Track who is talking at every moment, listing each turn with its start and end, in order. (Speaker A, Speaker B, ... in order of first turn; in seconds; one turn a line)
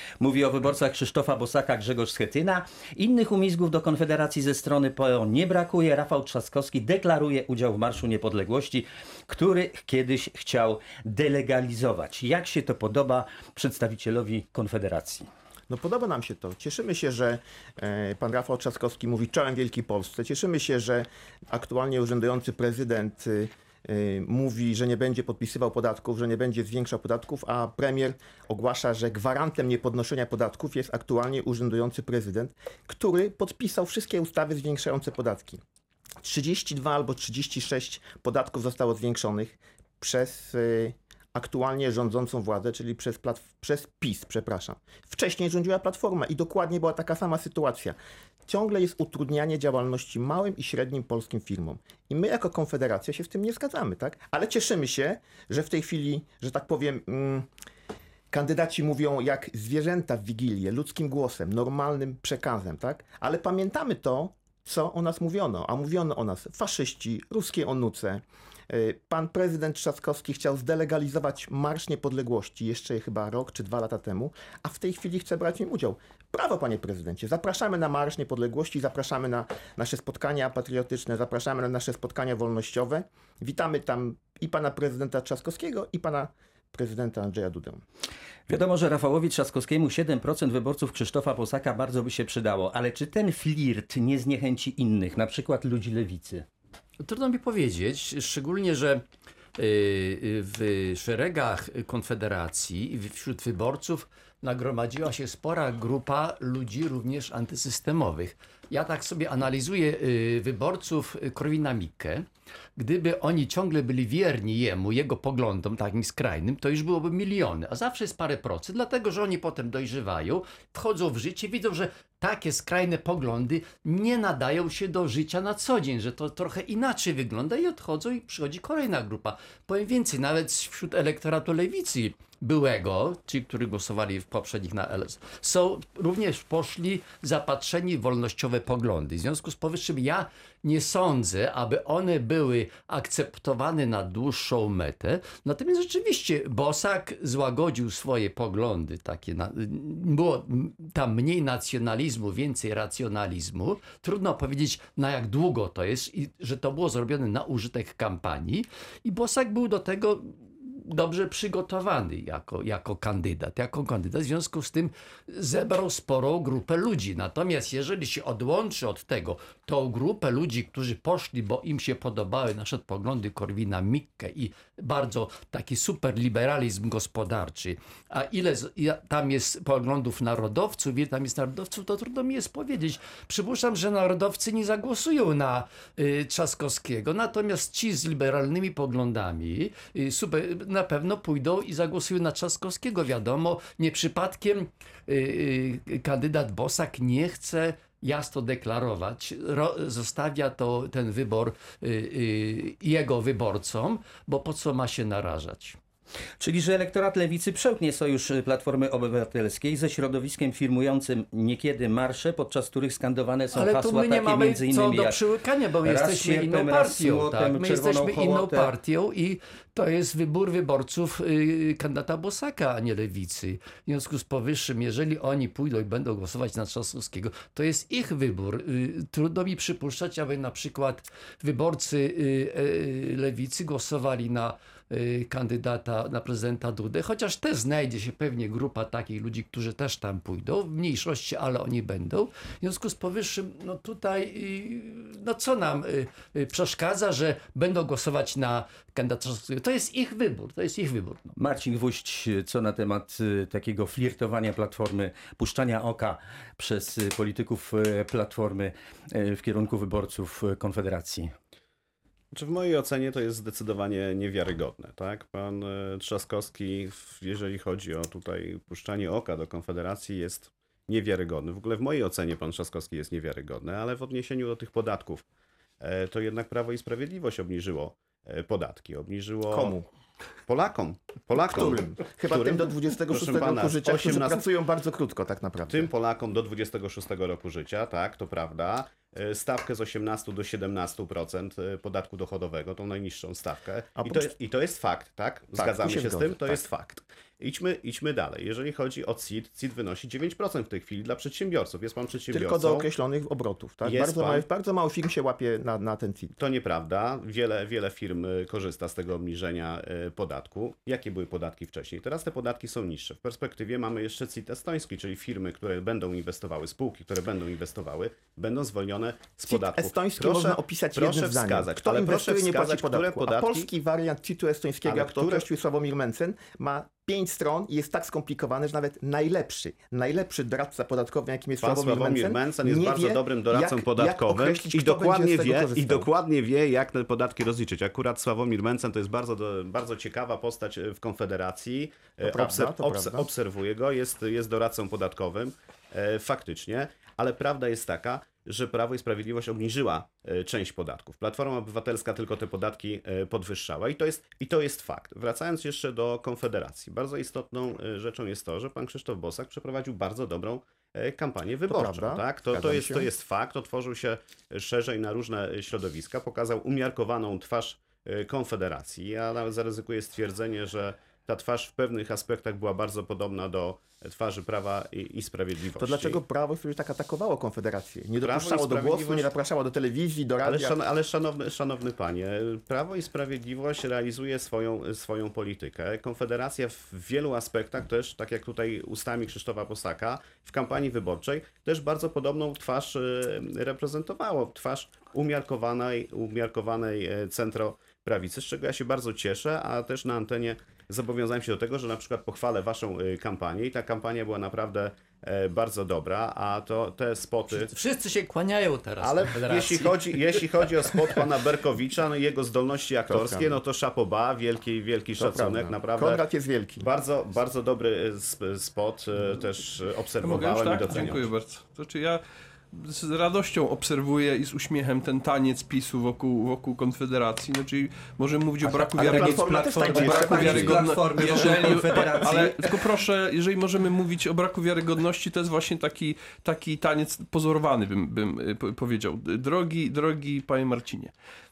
Speaker A: 0.2-15.3
Speaker B: 15.7-35.6
Speaker B: 36.2-57.5
Speaker B: 58.3-87.8
Speaker A: 88.5-96.4
Speaker C: 97.0-99.0
Speaker C: 99.5-205.8
Speaker A: 206.4-215.2
Speaker C: 213.5-251.3
Speaker A: 215.8-218.7
Speaker A: 251.3-261.3
Speaker D: 262.3-275.2
Speaker D: 275.8-279.7
Speaker B: 279.5-279.8
Speaker D: 280.5-284.4
Speaker B: 281.4-285.9
Speaker D: 285.7-302.9
Speaker B: 294.0-294.3
Speaker B: 295.6-296.6
Speaker B: 302.3-306.4
Speaker D: 303.8-304.4
Speaker D: 306.4-323.7
Speaker B: 319.5-336.1
Speaker D: 324.8-325.4
Speaker D: 331.6-376.2
Speaker B: 342.2-343.3
Speaker B: 361.7-363.1
Speaker B: 375.7-380.8
Speaker D: 378.2-379.3
Speaker D: 380.4-407.7
Speaker C: 407.5-411.1
Speaker D: 409.0-416.2
Speaker B: 413.1-413.6
Speaker B: 415.2-416.9
Speaker D: 416.8-421.2
Speaker E: 420.2-422.2
Speaker E: 422.7-441.1
Speaker A: 428.6-432.8
Speaker B: 429.0-432.2